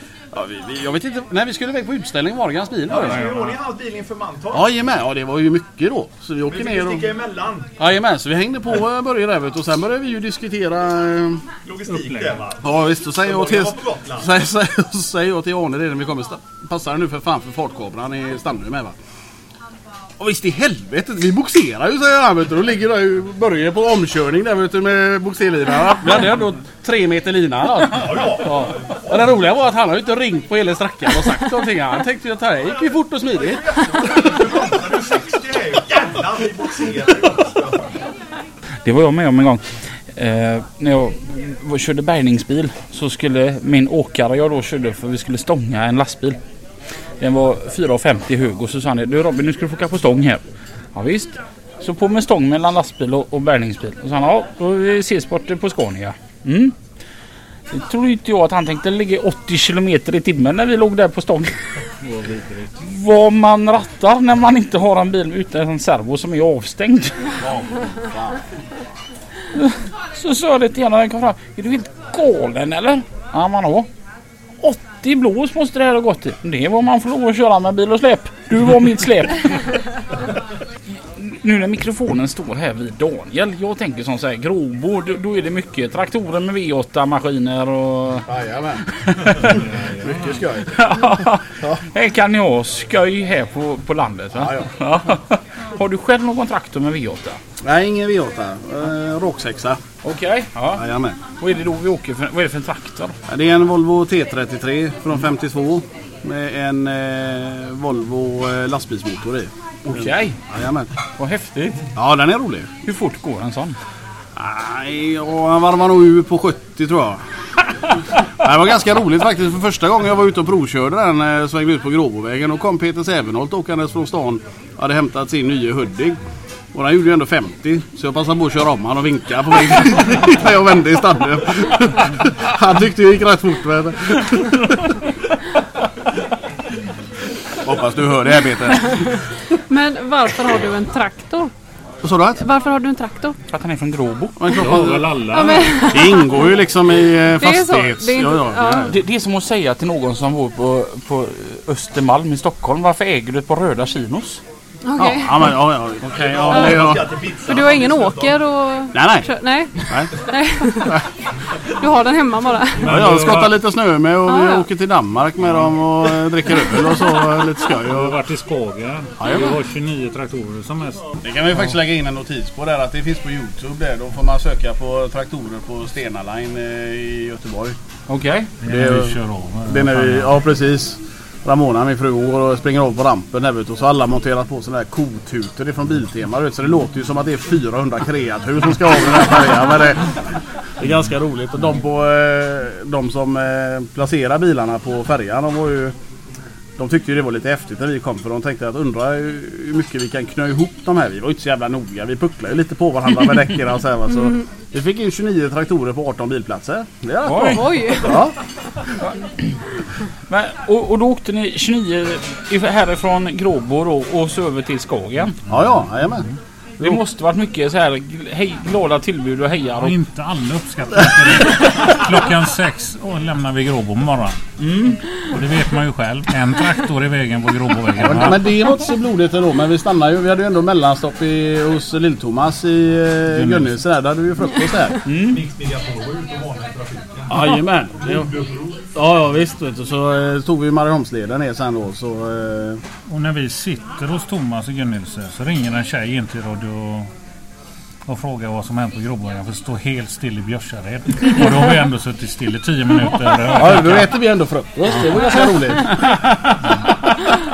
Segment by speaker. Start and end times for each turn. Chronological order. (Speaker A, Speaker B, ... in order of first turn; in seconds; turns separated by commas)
Speaker A: 0.3-3.2, Speaker B: 2.9-4.7, Speaker C: 2.9-3.5, Speaker A: 4.5-7.0, Speaker B: 6.5-7.7, Speaker A: 7.8-11.4, Speaker B: 11.7-14.3, Speaker C: 11.9-12.4, Speaker A: 12.6-18.9, Speaker A: 20.2-33.6, Speaker B: 27.9-28.8, Speaker B: 33.8-38.0, Speaker D: 38.9-46.4, Speaker D: 47.2-50.4, Speaker D: 51.0-56.8, Speaker D: 57.7-61.6, Speaker C: 62.1-62.6, Speaker D: 62.8-67.3, Speaker B: 67.4-68.3, Speaker D: 69.5-73.9, Speaker D: 74.6-79.7, Speaker D: 81.2-88.3, Speaker A: 88.3-88.8, Speaker D: 89.0-89.6, Speaker C: 89.5-90.3, Speaker A: 90.0-90.8, Speaker D: 90.7-97.4, Speaker A: 94.3-94.7, Speaker A: 97.6-99.8, Speaker D: 100.0-100.8, Speaker A: 100.8-101.2, Speaker D: 101.4-103.2, Speaker A: 103.3-110.9, Speaker D: 109.8-110.4, Speaker D: 111.2-111.8, Speaker A: 112.0-112.7, Speaker D: 112.8-113.8, Speaker A: 114.4-117.2, Speaker A: 118.4-126.2, Speaker A: 126.7-134.9, Speaker A: 137.6-139.2, Speaker E: 139.7-141.5, Speaker A: 142.0-142.4, Speaker E: 142.4-143.4, Speaker D: 143.5-144.3, Speaker A: 144.4-145.2, Speaker C: 144.5-146.0, Speaker E: 145.3-146.5, Speaker A: 145.9-149.0, Speaker E: 147.4-148.9, Speaker D: 148.9-154.4, Speaker E: 154.8-155.6, Speaker A: 155.0-157.0, Speaker B: 156.1-158.4, Speaker E: 157.5-161.0, Speaker A: 158.9-160.1, Speaker A: 160.7-161.0, Speaker E: 161.8-162.9, Speaker C: 162.8-163.6, Speaker A: 162.8-168.2, Speaker E: 164.3-164.7, Speaker C: 167.8-171.1, Speaker A: 169.2-169.6, Speaker A: 171.2-177.8, Speaker D: 178.1-178.5, Speaker C: 178.6-180.4, Speaker A: 178.7-190.1, Speaker A: 190.8-195.9, Speaker A: 196.8-208.3, Speaker D: 207.2-207.7, Speaker E: 207.5-208.2, Speaker D: 209.0-209.5, Speaker D: 210.3-215.4, Speaker A: 215.5-216.2, Speaker D: 216.8-219.9, Speaker C: 219.8-224.4, Speaker D: 224.6-225.0, Speaker C: 225.3-228.4, Speaker A: 228.0-235.0, Speaker C: 233.3-233.7, Speaker D: 235.1-235.4, Speaker B: 235.2-237.5, Speaker A: 237.3-238.3, Speaker B: 238.1-238.7, Speaker A: 238.9-242.8, Speaker C: 243.1-247.1, Speaker C: 248.1-254.1, Speaker A: 253.5-256.0